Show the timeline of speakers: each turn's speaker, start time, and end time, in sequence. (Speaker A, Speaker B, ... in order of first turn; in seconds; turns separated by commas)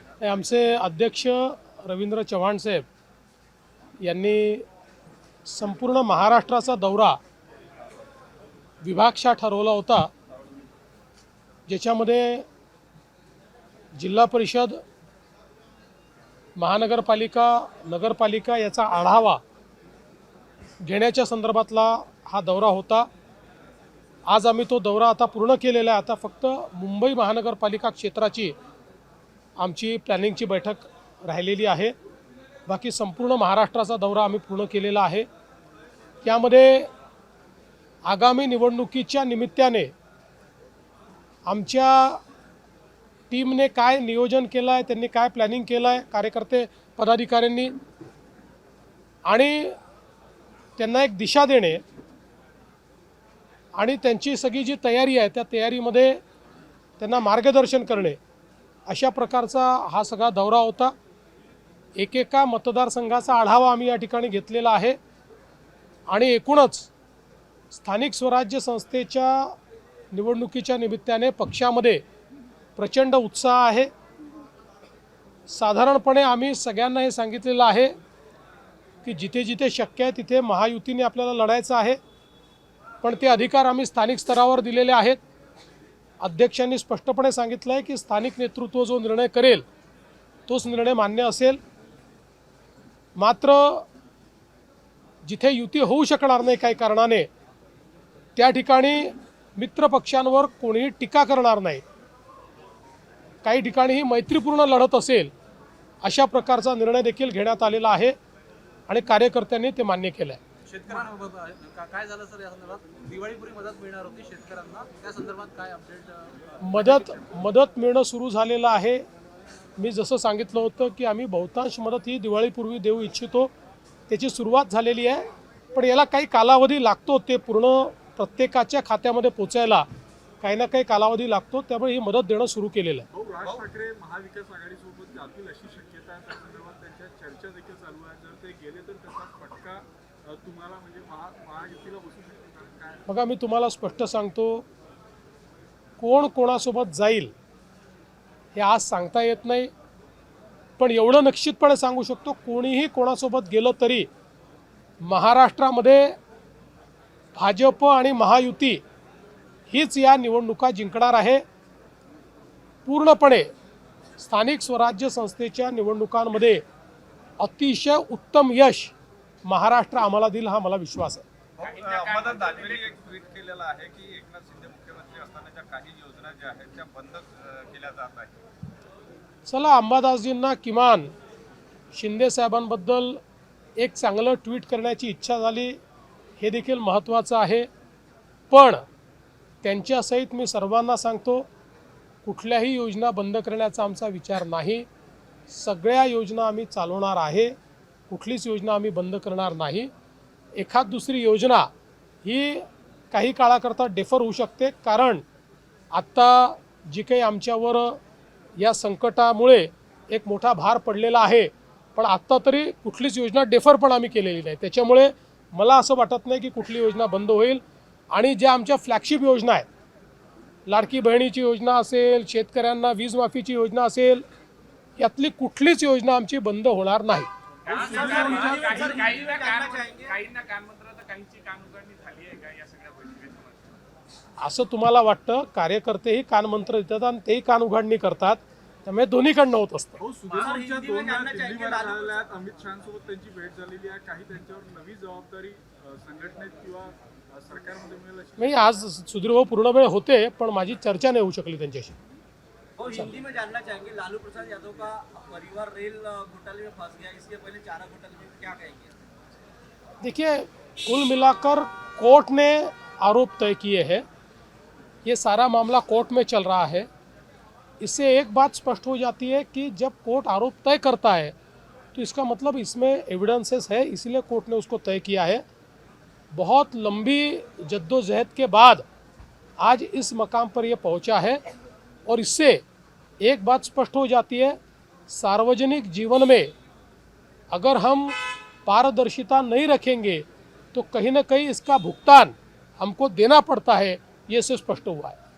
Speaker A: 0.2-2.8, Speaker A: 4.0-4.7, Speaker A: 5.5-7.2, Speaker A: 8.8-10.1, Speaker A: 11.7-12.4, Speaker A: 13.9-14.8, Speaker A: 16.6-19.4, Speaker A: 20.8-23.1, Speaker A: 24.3-28.5, Speaker A: 29.6-31.9, Speaker A: 32.7-35.3, Speaker A: 36.2-36.9, Speaker A: 38.0-39.9, Speaker A: 41.5-42.2, Speaker A: 43.3-47.7, Speaker A: 49.3-49.8, Speaker A: 50.8-51.8, Speaker A: 53.7-56.2, Speaker A: 57.0-58.2, Speaker A: 58.9-60.9, Speaker A: 62.0-65.0, Speaker A: 66.1-66.9, Speaker A: 67.7-69.5, Speaker A: 70.1-72.0, Speaker A: 72.8-73.9, Speaker A: 75.5-77.9, Speaker A: 79.0-82.0, Speaker A: 83.0-85.2, Speaker A: 86.2-89.6, Speaker A: 90.5-91.6, Speaker A: 93.2-93.9, Speaker A: 95.2-97.3, Speaker A: 98.3-101.8, Speaker A: 103.4-105.3, Speaker A: 106.0-108.2, Speaker A: 108.9-110.4, Speaker B: 110.6-117.4, Speaker A: 116.6-119.0, Speaker A: 119.8-123.5, Speaker A: 124.1-129.8, Speaker A: 130.4-133.1, Speaker C: 133.1-143.1, Speaker A: 143.1-144.7, Speaker A: 146.0-147.3, Speaker A: 148.5-149.7, Speaker A: 150.8-154.1, Speaker A: 155.0-156.2, Speaker A: 157.3-158.8, Speaker A: 159.7-161.4, Speaker A: 162.8-163.5, Speaker A: 164.2-166.6, Speaker A: 167.4-168.9, Speaker A: 169.4-171.2, Speaker D: 171.6-178.3, Speaker E: 171.6-172.9, Speaker A: 179.5-181.1, Speaker A: 181.9-183.2, Speaker A: 183.8-185.8, Speaker A: 186.4-187.7, Speaker A: 188.5-188.8, Speaker A: 189.6-191.5, Speaker A: 192.2-194.8, Speaker A: 195.5-197.5, Speaker A: 198.1-199.9, Speaker A: 200.6-201.7, Speaker A: 202.2-205.2, Speaker A: 205.9-208.0, Speaker A: 208.6-219.7, Speaker A: 220.7-224.2, Speaker A: 225.0-227.3, Speaker E: 227.6-233.8, Speaker F: 227.7-230.1, Speaker C: 227.7-228.8, Speaker A: 234.4-240.0, Speaker C: 240.0-248.8, Speaker F: 240.3-242.3, Speaker A: 248.4-251.9, Speaker F: 252.8-258.9, Speaker A: 260.0-264.0, Speaker A: 265.0-266.9, Speaker A: 267.8-271.3, Speaker A: 271.9-275.4, Speaker A: 276.3-278.8, Speaker A: 279.6-281.4, Speaker A: 282.1-282.6, Speaker A: 283.2-284.6, Speaker A: 285.1-286.5, Speaker A: 287.5-295.2